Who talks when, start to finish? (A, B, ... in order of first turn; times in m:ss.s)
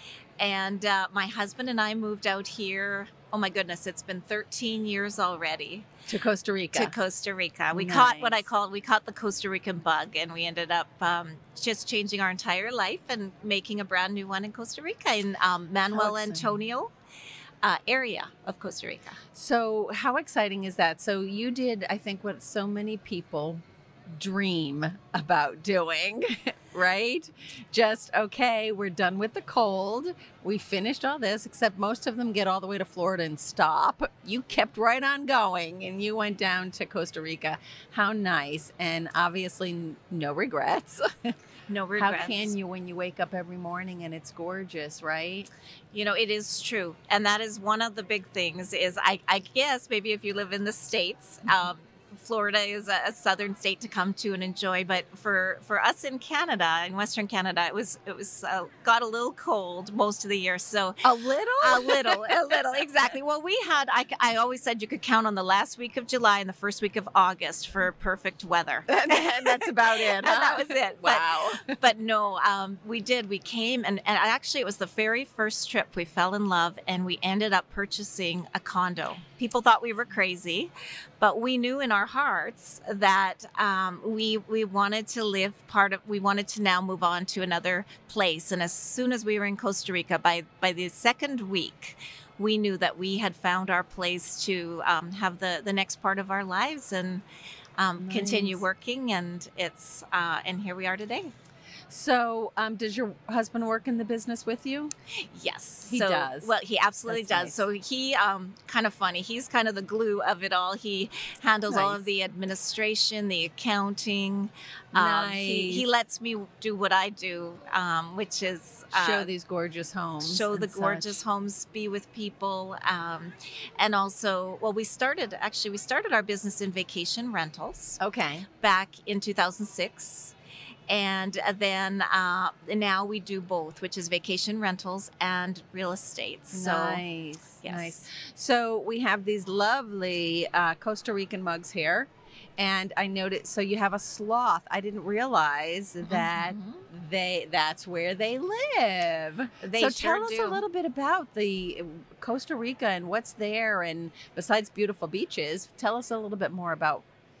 0:00.4-0:05.9 A
0:06.1-0:06.9 B
0:06.7-0:16.9 A
0:07.7-0:08.4 B
0:15.9-0:16.5 B
0:17.6-0:19.2 A
0:19.3-0:23.6 B
0:24.2-0:41.0 B
0:41.7-0:42.5 A
0:41.9-0:45.5 B
0:45.9-1:01.0 A
1:01.0-1:02.4 B
1:01.6-1:37.2 A
1:08.9-1:11.8 B
1:37.8-1:41.3 A
1:38.0-1:38.6 B
1:41.9-1:44.9 B
1:45.3-1:59.3 A
1:45.9-1:46.5 B
1:47.1-1:47.6 B
1:51.7-1:52.0 B
1:54.9-1:55.9 B
1:58.9-2:01.2 B
2:00.2-2:08.0 A
2:08.0-2:08.4 B
2:08.6-2:10.3 A
2:10.9-2:17.0 A
2:16.5-2:37.0 B
2:17.6-2:18.0 A
2:26.0-2:26.8 A
2:29.6-2:30.6 A